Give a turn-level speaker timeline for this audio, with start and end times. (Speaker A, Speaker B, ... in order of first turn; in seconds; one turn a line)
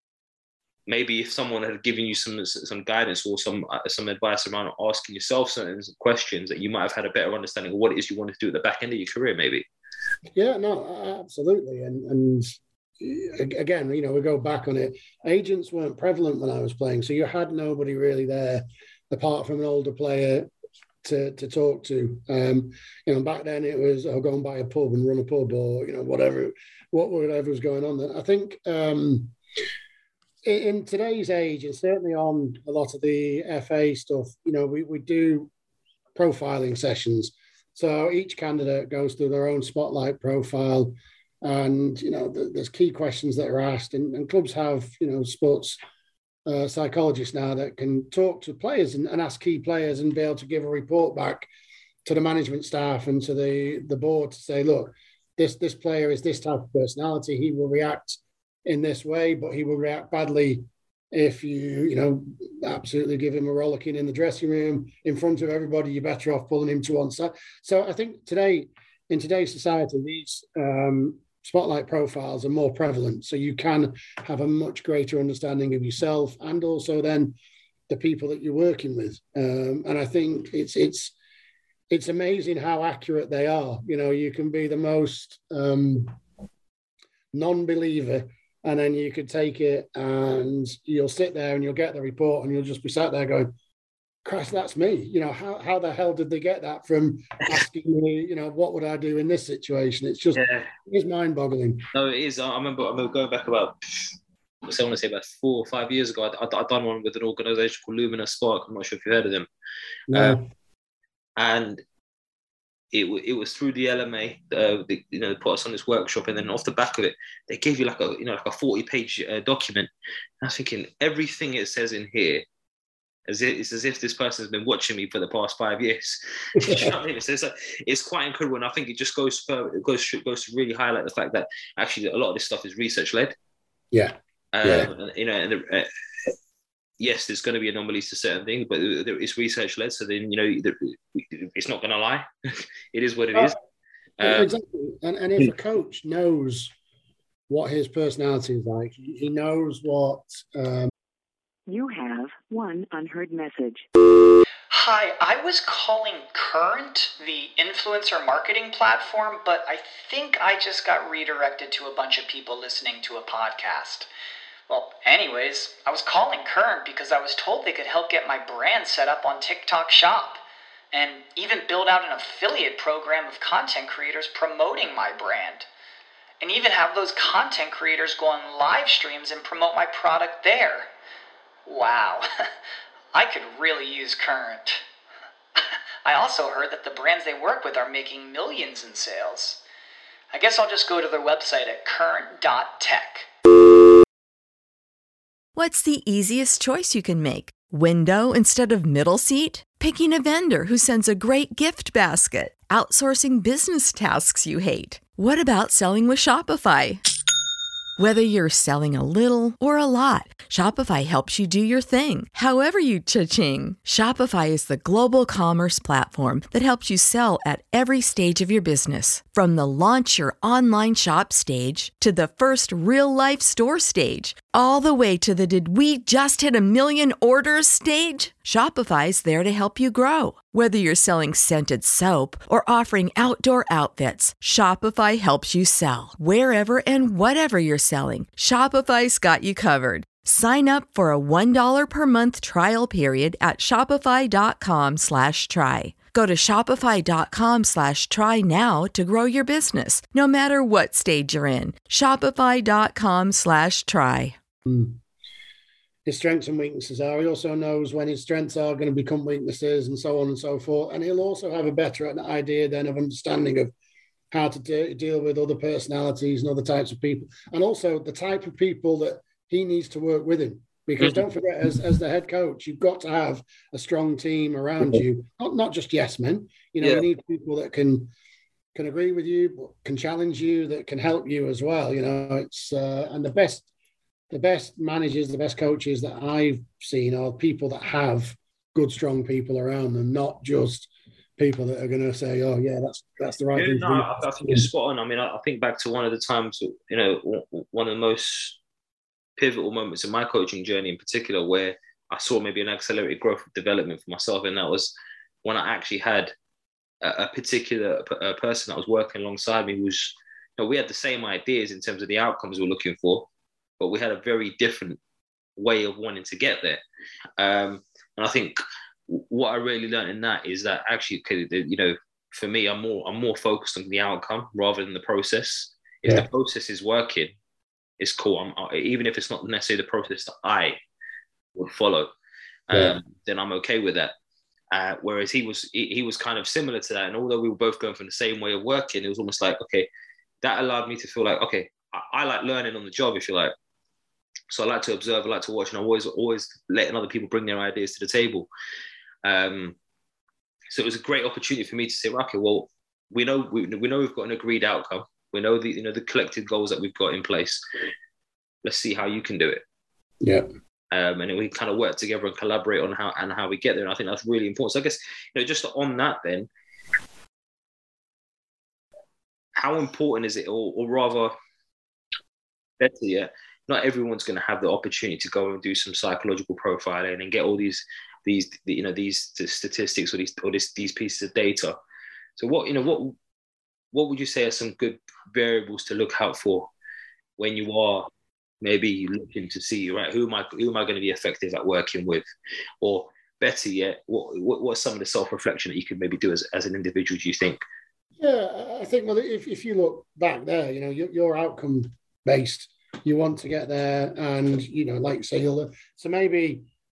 Speaker A: 0.9-9.7
Speaker B: 10.3-20.5
Speaker B: 21.0-29.3
Speaker B: 30.4-35.5
Speaker B: 36.1-45.8
Speaker B: 46.5-51.5
Speaker B: 52.0-77.3
Speaker B: 77.9-81.1
Speaker B: 81.9-86.2
Speaker B: 87.3-93.5
Speaker B: 94.2-101.8
Speaker A: 100.3-100.7
Speaker A: 101.9-104.1
Speaker A: 104.6-109.5
Speaker B: 110.1-110.4
Speaker A: 110.1-110.4
Speaker A: 111.4-111.8
Speaker A: 112.9-119.9
Speaker A: 120.4-122.4
Speaker A: 123.3-133.3
Speaker B: 126.6-126.9
Speaker B: 133.9-134.9
Speaker A: 134.5-136.3
Speaker A: 137.0-143.6
Speaker A: 144.2-144.5
Speaker B: 144.2-146.7
Speaker B: 147.5-150.9
Speaker C: 151.7-153.8
Speaker D: 154.7-164.1
Speaker D: 164.7-175.7
Speaker D: 176.4-180.9
Speaker D: 181.7-182.3
Speaker D: 183.1-184.8
Speaker D: 186.0-189.6
Speaker D: 190.3-193.3
Speaker E: 195.6-207.0
Speaker E: 208.0-254.3
Speaker B: 254.6-255.0
Speaker B: 256.1-263.7
Speaker B: 264.3-278.1
Speaker A: 271.0-271.2
Speaker B: 278.7-283.7
Speaker B: 284.3-294.7
Speaker A: 293.5-298.6
Speaker A: 299.4-306.3
Speaker A: 307.0-313.3
Speaker A: 313.8-315.0
Speaker A: 315.6-316.8
Speaker A: 317.4-327.3
Speaker A: 328.0-330.8
Speaker A: 331.6-332.1
Speaker A: 332.7-334.1
Speaker B: 332.7-333.0
Speaker A: 334.7-339.9
Speaker A: 340.4-343.5
Speaker A: 344.5-348.5
Speaker A: 349.2-349.8
Speaker A: 350.7-357.6
Speaker A: 358.6-359.6
Speaker B: 360.2-360.5
Speaker A: 360.9-366.5
Speaker A: 369.6-371.3
Speaker A: 372.8-381.7
Speaker A: 382.4-383.2
Speaker A: 383.9-386.7
Speaker A: 387.4-388.1
Speaker A: 388.6-392.3
Speaker A: 392.8-397.6
Speaker B: 398.2-406.6